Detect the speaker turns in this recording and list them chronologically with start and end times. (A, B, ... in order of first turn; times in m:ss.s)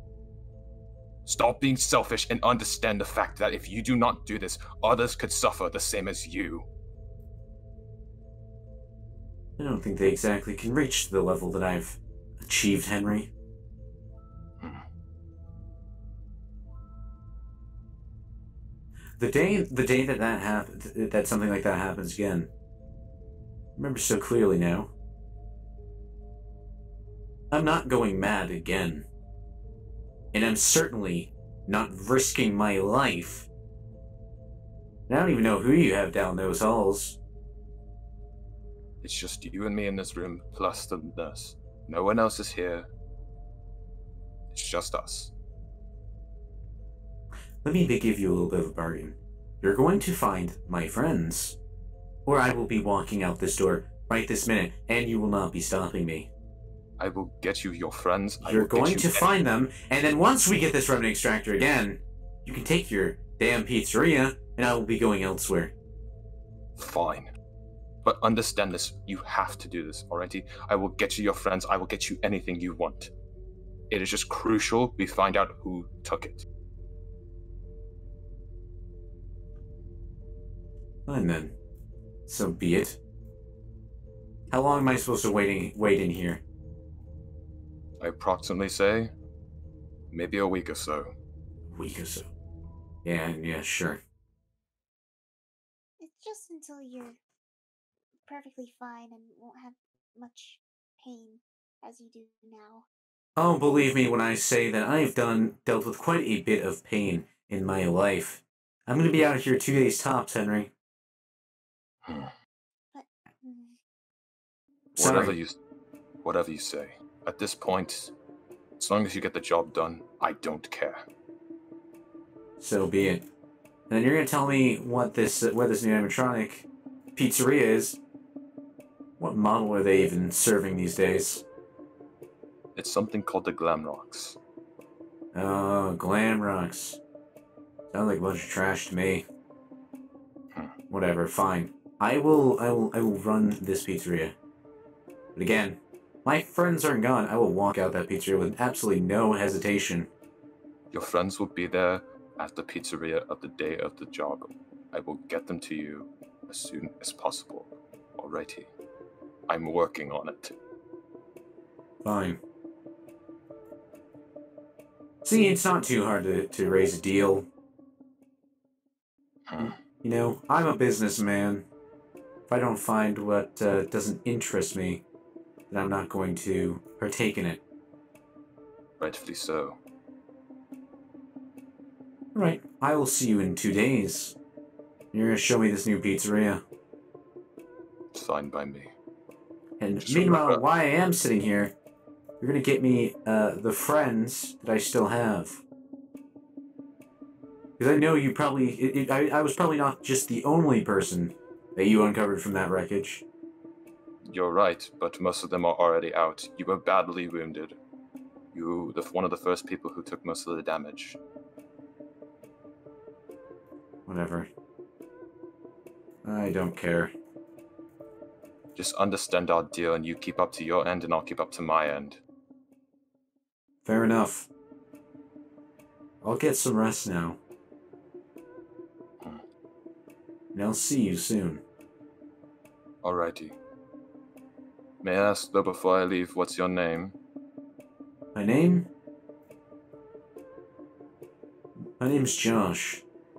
0:01.2-0:06.7 A
0:09.6-0:13.3 B
0:14.6-0:14.8 A
0:19.2-0:22.5 B
0:23.8-0:24.9 B
0:27.5-0:29.1 B
0:30.3-0:33.5 B
0:35.1-0:37.2 B
0:39.0-0:42.9 A
0:44.5-0:45.3 A
0:47.6-0:51.6 B
0:52.2-0:56.3 B
0:57.0-0:59.3 A
0:58.4-1:05.7 B
1:06.8-1:07.3 A
1:08.0-1:13.1 A
1:13.9-1:16.4 A
1:21.1-1:21.6 B
1:22.3-1:23.0 B
1:24.5-1:26.4 B
1:28.0-1:29.1 A
1:30.1-1:31.1 A
1:31.7-1:32.3 B
1:33.0-1:34.0 B
1:36.0-1:37.2 C
1:38.2-1:42.9 C
1:43.4-1:50.7 B
1:52.9-1:53.8 C
1:54.9-1:55.6 A
1:55.0-1:55.3 B
1:56.2-1:58.1 A
1:58.8-2:01.0 A
2:02.6-2:03.2 B
2:03.9-2:08.0 B
2:09.2-2:11.4 B
2:12.8-2:14.4 A
2:15.3-2:17.0 B
2:17.9-2:19.2 B
2:20.9-2:24.4 B
2:25.4-2:30.1 B
2:30.9-2:38.7 A
2:39.5-2:40.5 A
2:42.0-2:42.4 B
2:45.2-2:47.5 B
2:49.5-2:49.7 A
2:49.6-2:51.7 B
2:52.5-2:55.0 B
2:55.7-2:57.6 B
2:59.0-2:59.8 A
3:02.3-3:04.4 B
3:05.1-3:06.6 B
3:08.1-3:08.9 A
3:09.8-3:11.7 B
3:10.0-3:10.6 A
3:12.4-3:15.6 B
3:17.8-3:23.2 B
3:24.3-3:27.8 A
3:28.5-3:31.2 A
3:34.0-3:34.5 B
3:36.2-3:37.1 B
3:38.8-3:42.2 A
3:43.8-3:44.5 B
3:46.2-3:47.4 B
3:50.5-3:51.6 B
3:53.0-3:53.6 A
3:55.0-3:57.2 A
3:58.3-3:58.9 B
4:02.0-4:03.0 B